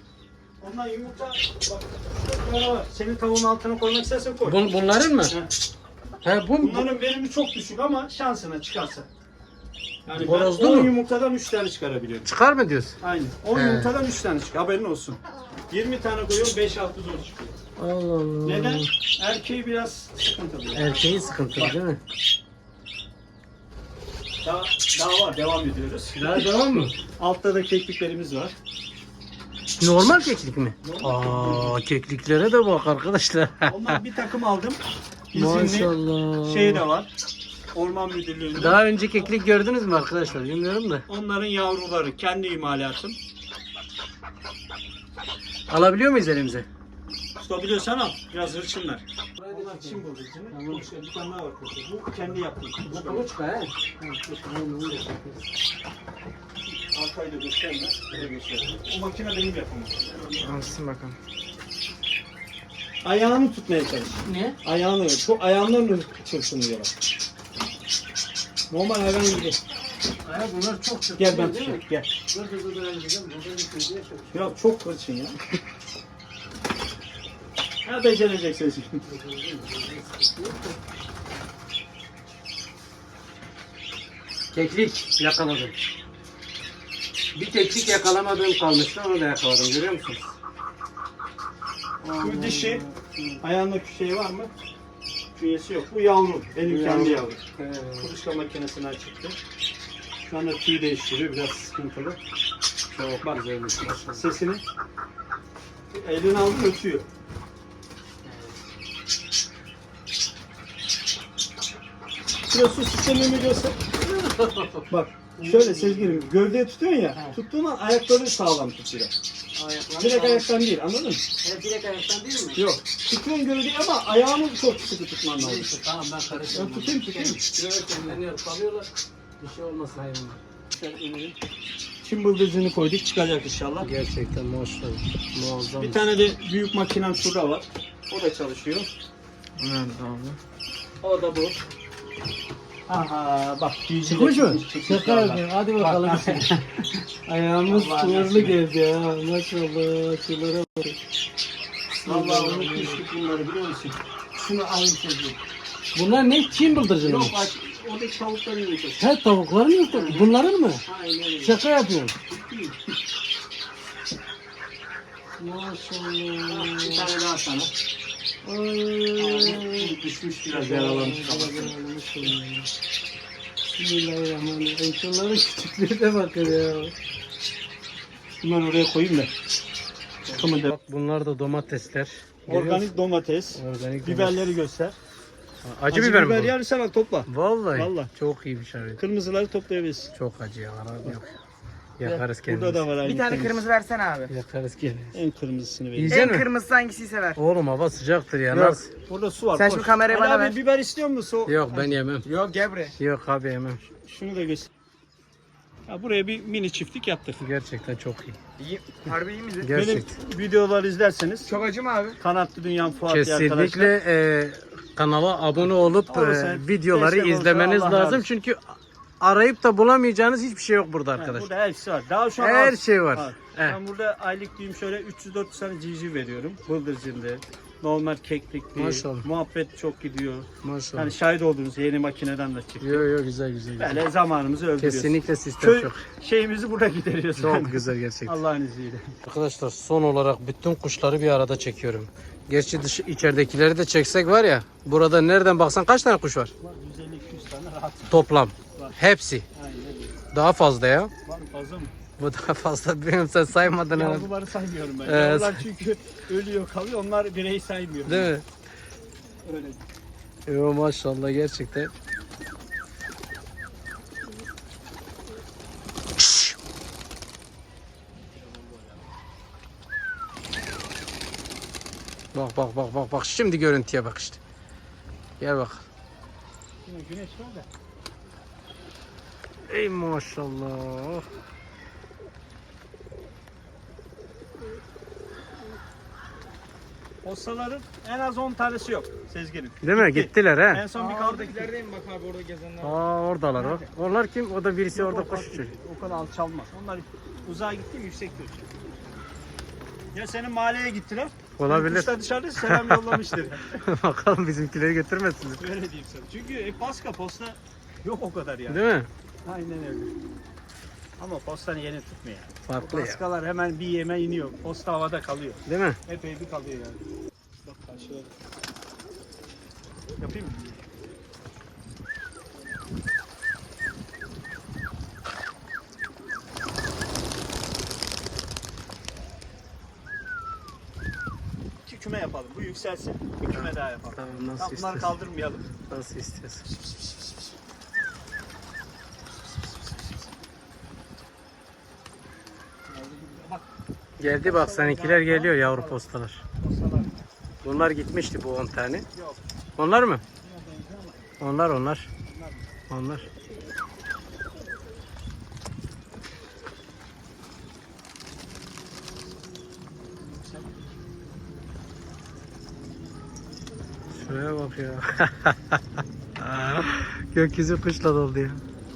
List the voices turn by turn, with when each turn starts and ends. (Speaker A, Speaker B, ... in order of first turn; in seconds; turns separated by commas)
Speaker A: 0.6-4.6, Speaker B: 4.5-5.3, Speaker B: 6.2-6.9, Speaker A: 6.6-9.1, Speaker A: 10.1-12.3, Speaker B: 10.2-10.9, Speaker B: 12.3-13.0, Speaker A: 13.0-15.2, Speaker B: 13.5-13.9, Speaker A: 15.7-17.6, Speaker B: 17.8-18.9, Speaker A: 18.4-21.0, Speaker B: 20.7-22.0, Speaker A: 24.4-26.5, Speaker B: 26.2-27.0, Speaker A: 27.2-28.6, Speaker B: 29.8-34.0, Speaker A: 30.8-31.8, Speaker A: 33.6-34.8, Speaker A: 35.3-37.1, Speaker B: 35.4-36.8, Speaker A: 37.7-39.2, Speaker B: 38.5-41.1, Speaker A: 41.1-43.2, Speaker B: 45.7-46.7, Speaker A: 47.4-53.3, Speaker B: 49.4-50.9, Speaker B: 52.9-55.5, Speaker A: 56.9-60.4, Speaker B: 60.4-61.2, Speaker A: 63.0-66.9, Speaker B: 64.2-64.6, Speaker A: 68.7-69.6, Speaker B: 70.2-74.5, Speaker A: 71.2-72.1, Speaker A: 74.3-75.4, Speaker A: 77.8-79.0, Speaker B: 79.1-80.8, Speaker B: 84.5-85.7, Speaker B: 87.3-90.3, Speaker B: 92.0-93.4, Speaker A: 92.2-92.8, Speaker A: 93.4-94.5, Speaker A: 95.3-97.4, Speaker B: 96.6-98.1, Speaker A: 98.0-99.4, Speaker A: 100.3-102.2, Speaker B: 102.9-104.2, Speaker A: 104.0-104.6, Speaker A: 105.9-107.1, Speaker B: 108.2-108.6, Speaker A: 112.5-113.8, Speaker B: 114.0-116.3, Speaker A: 114.9-119.1, Speaker B: 119.5-120.5, Speaker A: 120.0-121.3, Speaker B: 121.4-122.7, Speaker A: 122.5-125.7, Speaker B: 125.4-130.4, Speaker A: 126.4-127.4, Speaker A: 130.7-131.4, Speaker A: 132.0-133.9, Speaker B: 133.8-136.1, Speaker A: 135.8-138.9, Speaker C: 139.6-140.4, Speaker B: 139.6-140.2, Speaker A: 141.0-141.6, Speaker A: 142.9-146.8, Speaker B: 144.1-146.5, Speaker B: 147.3-151.0, Speaker A: 147.7-148.6, Speaker B: 151.9-153.0, Speaker A: 152.1-155.4, Speaker B: 155.9-157.3, Speaker A: 157.0-159.1, Speaker B: 159.0-160.8, Speaker A: 159.9-160.3, Speaker A: 160.8-161.6, Speaker B: 161.4-162.2, Speaker A: 162.3-162.8, Speaker B: 165.4-167.1, Speaker A: 166.5-167.7, Speaker B: 168.4-172.7, Speaker A: 169.2-171.8, Speaker B: 173.8-176.9, Speaker A: 178.4-179.3, Speaker A: 180.3-180.7, Speaker B: 180.3-182.9, Speaker A: 182.5-184.9, Speaker B: 183.6-184.5, Speaker B: 185.6-186.6, Speaker A: 185.9-188.1, Speaker B: 187.3-189.0, Speaker A: 189.0-190.1, Speaker B: 190.2-191.3, Speaker B: 192.0-192.8, Speaker A: 192.4-193.7, Speaker C: 193.0-194.3, Speaker B: 194.3-195.2, Speaker A: 195.1-196.3, Speaker B: 195.9-196.5, Speaker C: 196.1-197.4, Speaker B: 197.4-198.9, Speaker A: 198.5-201.9, Speaker C: 199.6-200.6, Speaker B: 201.5-202.3, Speaker C: 202.2-203.0, Speaker B: 202.9-203.8, Speaker A: 204.0-204.7, Speaker A: 205.9-207.5, Speaker B: 207.4-208.4, Speaker C: 208.6-209.8, Speaker B: 209.6-210.1, Speaker A: 209.7-211.6, Speaker C: 211.5-212.2, Speaker A: 212.2-213.9, Speaker B: 213.1-221.5, Speaker A: 216.1-218.3, Speaker A: 221.2-233.1, Speaker B: 222.4-223.8, Speaker B: 228.8-229.3, Speaker B: 230.6-231.2, Speaker B: 232.8-234.0, Speaker A: 233.8-239.1, Speaker B: 234.8-236.0, Speaker B: 237.4-238.4, Speaker B: 239.2-246.5, Speaker A: 246.6-248.2, Speaker B: 248.1-249.5, Speaker A: 249.6-250.2, Speaker B: 250.3-251.1, Speaker A: 251.2-251.9, Speaker B: 252.2-254.3, Speaker A: 253.9-258.3, Speaker B: 255.1-255.6, Speaker B: 258.1-258.4, Speaker A: 259.4-259.8, Speaker B: 260.5-261.9, Speaker A: 268.5-268.9, Speaker B: 272.3-274.4, Speaker B: 275.4-275.9, Speaker A: 276.8-277.7, Speaker B: 279.7-281.3, Speaker A: 287.2-291.7, Speaker B: 289.8-290.8, Speaker C: 290.9-293.0, Speaker B: 292.8-295.7, Speaker C: 293.6-293.9, Speaker A: 294.9-298.7, Speaker A: 300.1-303.8, Speaker B: 301.6-305.7, Speaker A: 305.6-308.8, Speaker B: 308.7-309.1, Speaker A: 309.4-310.1, Speaker A: 311.2-317.0, Speaker B: 312.7-313.2, Speaker B: 315.7-316.0, Speaker A: 317.6-318.3, Speaker A: 320.2-320.8, Speaker A: 331.9-335.7, Speaker B: 333.5-335.1, Speaker B: 335.9-336.6, Speaker A: 336.6-337.4, Speaker A: 342.9-343.6, Speaker B: 344.2-346.4, Speaker A: 344.3-346.0, Speaker A: 346.6-347.2, Speaker B: 347.6-349.1, Speaker A: 349.1-349.4, Speaker B: 349.8-350.2, Speaker A: 350.4-351.3, Speaker B: 351.4-352.1, Speaker A: 352.2-352.7, Speaker B: 352.9-353.3, Speaker A: 360.4-360.7, Speaker B: 364.1-368.6